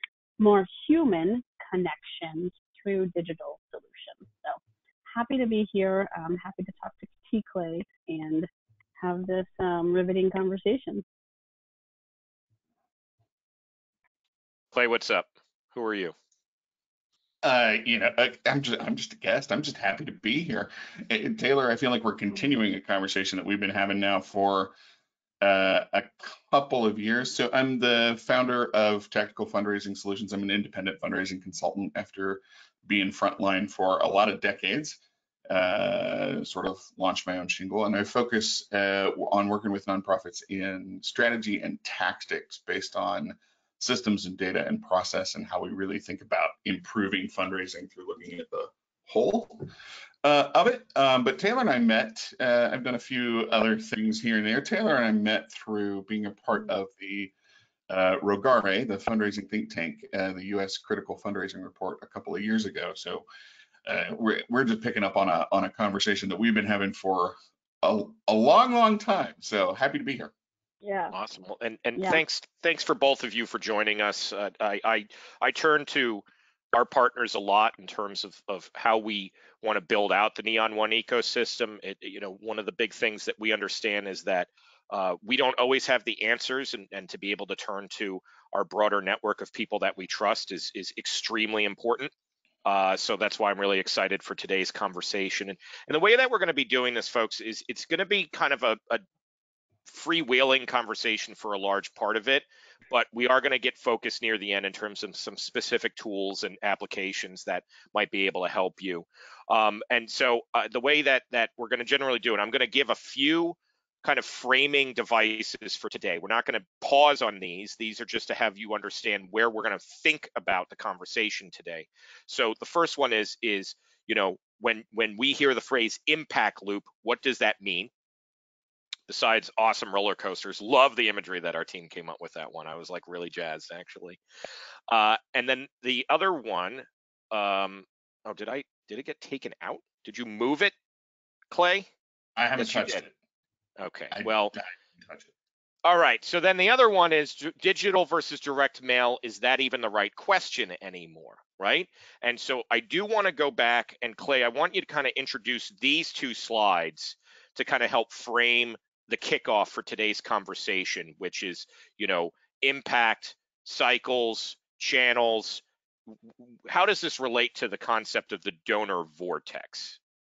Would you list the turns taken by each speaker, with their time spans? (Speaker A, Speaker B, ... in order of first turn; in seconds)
Speaker A: 0.4-8.5, 9.0-11.0, 70.8-71.1
Speaker B: 14.7-16.1, 71.1-92.1, 92.6-99.0, 99.9-127.9, 129.1-134.2, 134.9-140.7, 141.5-141.9, 142.6-143.0, 143.8-144.5, 145.8-165.6, 166.4-170.0
Speaker C: 17.4-24.7, 25.4-49.7, 50.2-57.3, 57.9-63.2, 63.9-70.3, 142.4-143.1, 144.1-145.3